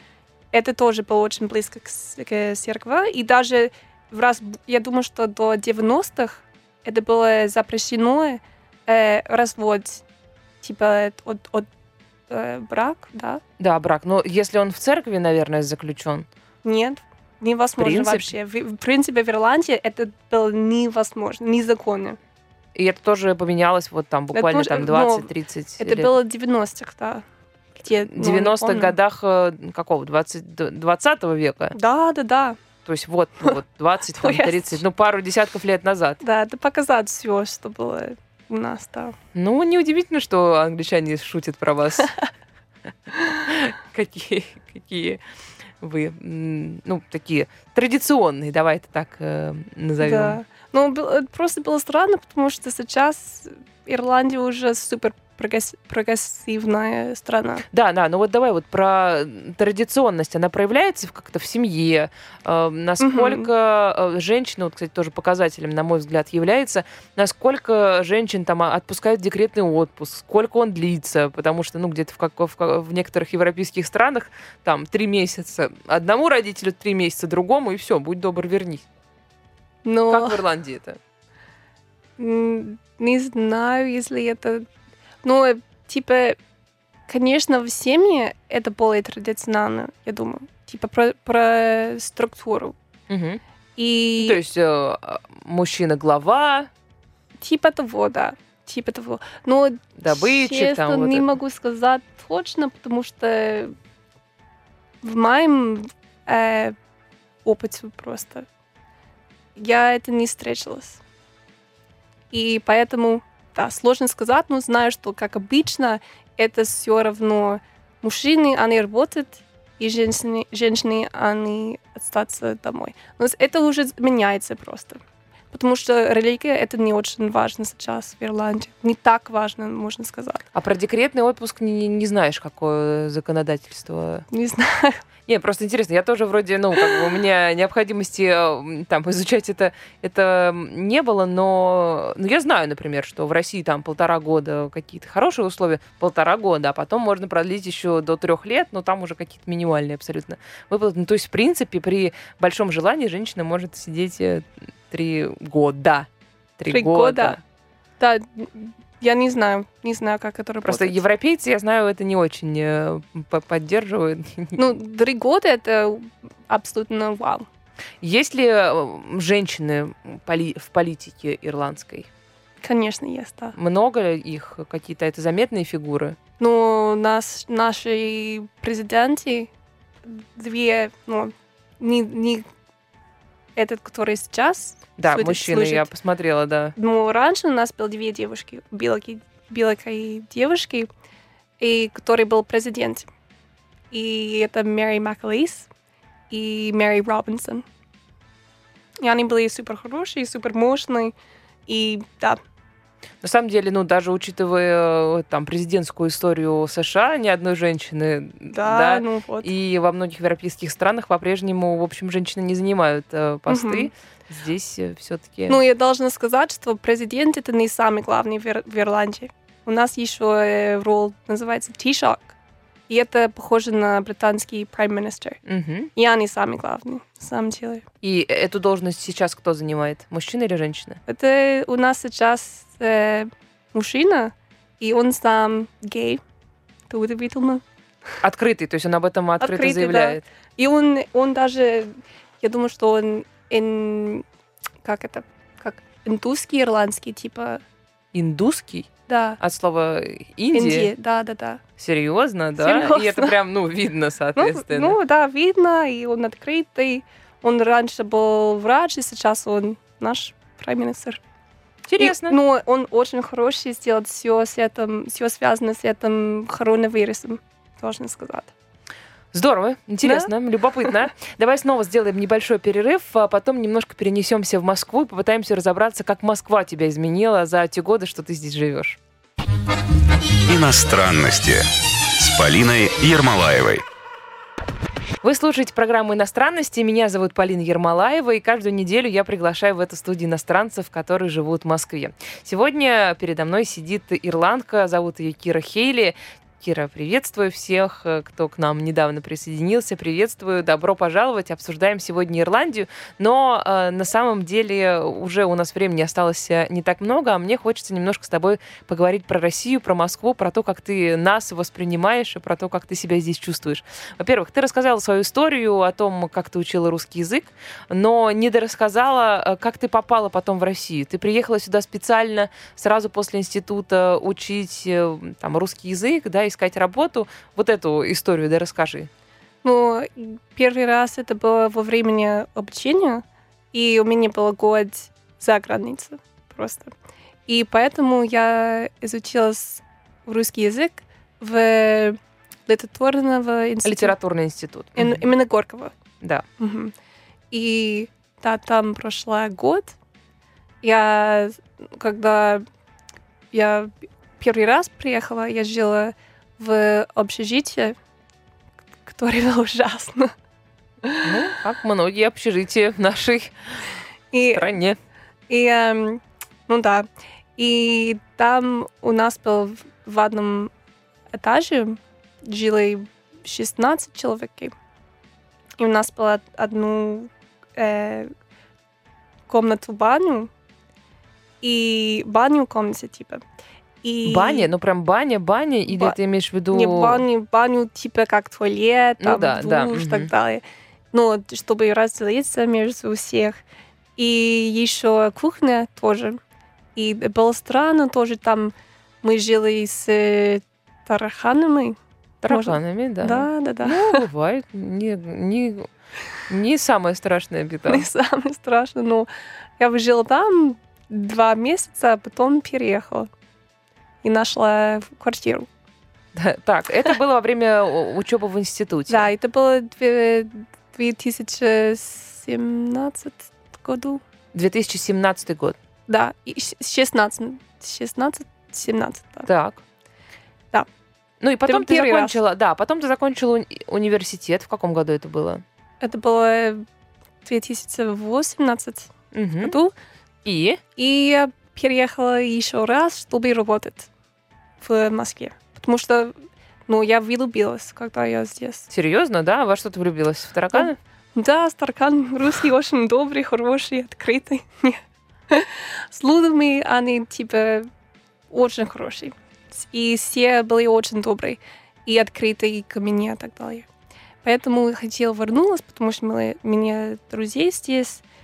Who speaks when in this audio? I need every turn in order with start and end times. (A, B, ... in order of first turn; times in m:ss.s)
0:00.5-0:10.0 A
0:10.6-0:11.7 A
0:12.3-0:13.4 A
0:13.6-0:16.3 B
0:16.6-0:22.2 A
0:17.8-0:18.3 B
0:22.7-0:26.1 B
0:24.3-0:25.3 A
0:25.8-0:27.2 A
0:27.8-0:28.9 A
0:28.0-0:31.8 B
0:31.7-0:32.6 A
0:32.8-0:36.2 B
0:34.2-0:34.8 A
0:36.2-0:39.2 A
0:39.3-0:42.1 B
0:43.4-0:45.2 B
0:45.8-0:50.4 B
0:50.0-0:57.6 A
0:57.7-1:18.8 B
1:03.0-1:03.5 A
1:19.8-1:20.4 A
1:20.1-1:21.0 B
1:22.2-1:24.6 A
1:25.2-1:26.4 A
1:27.1-1:32.7 A
1:33.1-1:33.4 B
1:33.8-1:34.4 A
1:34.2-1:36.7 B
1:37.4-1:43.7 A
1:40.0-1:41.3 B
1:45.0-1:46.7 A
1:47.4-1:48.4 A
1:49.6-1:51.0 A
1:52.3-2:05.0 A
2:05.5-2:10.4 A
2:10.5-2:14.2 B
2:14.3-2:15.0 A
2:15.3-2:37.4 B
2:36.6-2:37.4 A
2:38.0-2:41.0 A
2:40.6-2:44.7 B
2:44.6-2:47.5 A
2:48.0-2:52.1 B
2:52.6-2:53.6 A
2:53.5-2:56.2 B
2:56.4-2:59.5 A
3:00.0-3:02.4 A
3:03.6-3:05.9 A
3:05.0-3:06.7 B
3:06.8-3:10.9 A
3:11.6-3:13.1 A
3:13.9-3:15.7 A
3:16.3-3:17.6 A
3:19.0-3:21.1 A
3:21.7-3:22.4 A
3:23.2-3:35.6 B
3:28.5-3:29.5 A
3:33.5-3:33.9 A
3:35.5-3:42.3 A
3:42.9-3:45.4 A
3:45.4-3:45.9 B
3:45.9-3:47.8 A
3:48.0-3:51.0 B
3:51.1-3:56.2 A
3:56.9-3:57.6 A
3:58.2-4:00.2 B
3:59.4-4:04.2 A
4:04.8-4:07.6 A
4:08.1-4:08.9 B
4:09.1-4:09.4 A
4:09.4-4:10.9 B
4:10.5-4:11.6 A
4:11.8-4:15.0 B
4:12.6-4:13.3 A
4:14.3-4:21.2 A
4:21.9-4:22.4 B
4:22.0-4:28.5 A
4:29.3-4:39.0 B
4:30.0-4:30.3 A
4:40.5-4:43.8 C
4:45.2-5:29.1 B
5:29.6-5:36.9 A
5:37.5-5:44.1 A
5:43.8-5:45.2 B
5:45.0-5:45.9 A
5:46.6-5:46.9 A
5:47.5-5:49.9 A
5:50.8-5:52.6 A
5:53.5-5:57.9 A
5:59.0-6:00.3 A
6:01.2-6:03.5 B
6:04.3-6:04.7 A
6:04.5-6:05.0 B
6:05.5-6:10.7 A
6:11.3-6:14.7 A
6:15.8-6:18.3 A
6:19.5-6:20.5 A
6:21.6-6:23.4 A
6:24.0-6:24.7 A
6:24.2-6:27.2 B
6:25.9-6:26.2 A
6:26.7-6:33.6 A
6:29.2-6:30.3 B
6:34.2-6:36.4 A
6:37.0-6:42.0 A
6:42.4-6:45.9 B
6:42.5-6:44.2 A
6:46.5-6:48.1 B
6:47.9-6:53.3 A
6:54.2-6:55.7 A
6:56.3-6:59.3 B
6:59.1-7:04.2 A
7:04.5-7:05.8 B
7:06.1-7:09.5 A
7:09.4-7:09.8 B
7:11.4-7:15.6 B
7:11.7-7:12.4 A
7:16.0-7:16.8 A
7:17.4-7:19.9 A
7:19.3-7:19.8 B
7:20.4-7:20.8 B
7:21.0-7:24.1 A
7:24.8-7:26.4 A
7:26.9-7:28.9 A
7:28.9-7:31.0 B
7:30.7-7:37.9 A
7:38.5-7:43.8 A
7:44.4-7:48.2 A